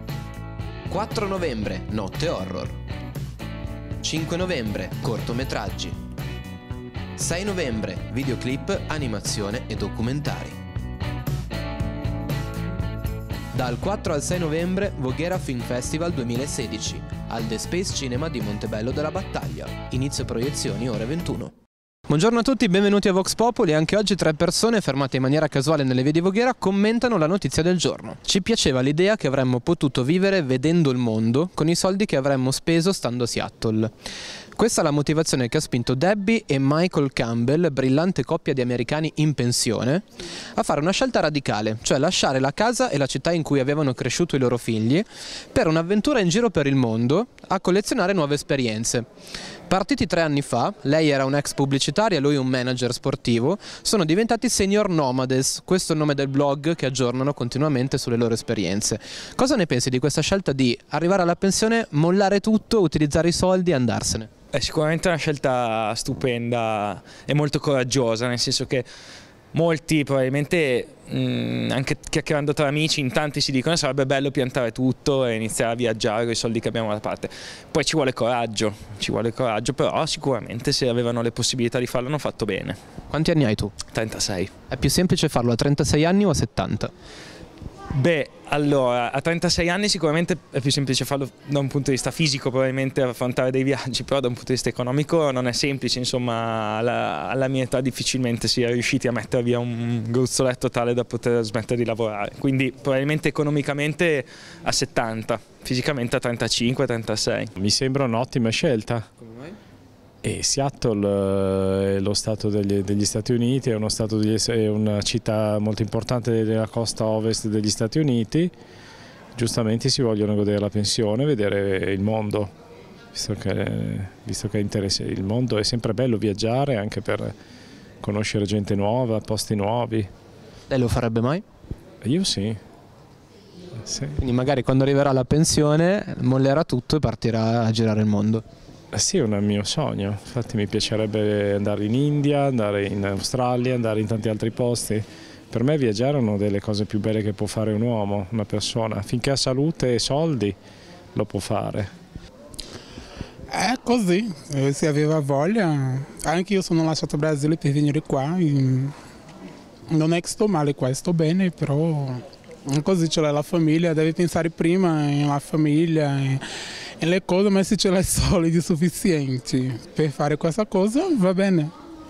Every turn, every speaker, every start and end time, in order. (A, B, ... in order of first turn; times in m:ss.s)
0:00.9-0:02.8 A
0:04.0-0:06.0 A
0:07.2-0:10.6 A
0:13.5-0:21.5 A
0:22.1-0:33.9 A
0:34.6-0:40.0 A
0:40.6-0:49.0 A
0:49.7-1:04.3 A
1:04.5-1:08.8 B
1:09.5-1:22.8 B
1:23.1-1:23.8 A
1:23.9-1:24.5 B
1:24.7-1:26.9 A
1:27.9-1:47.5 B
1:47.6-1:49.0 C
1:50.2-1:58.5 C
1:59.4-2:02.5 C
2:03.1-2:07.3 C
2:08.0-2:10.1 C
2:10.7-2:11.4 A
2:12.0-2:12.6 C
2:13.8-2:14.2 C
2:14.2-2:18.4 A
2:18.9-2:30.6 C
2:31.1-2:31.9 C
2:33.5-2:38.9 D
2:39.9-2:46.4 D
2:47.0-2:51.7 D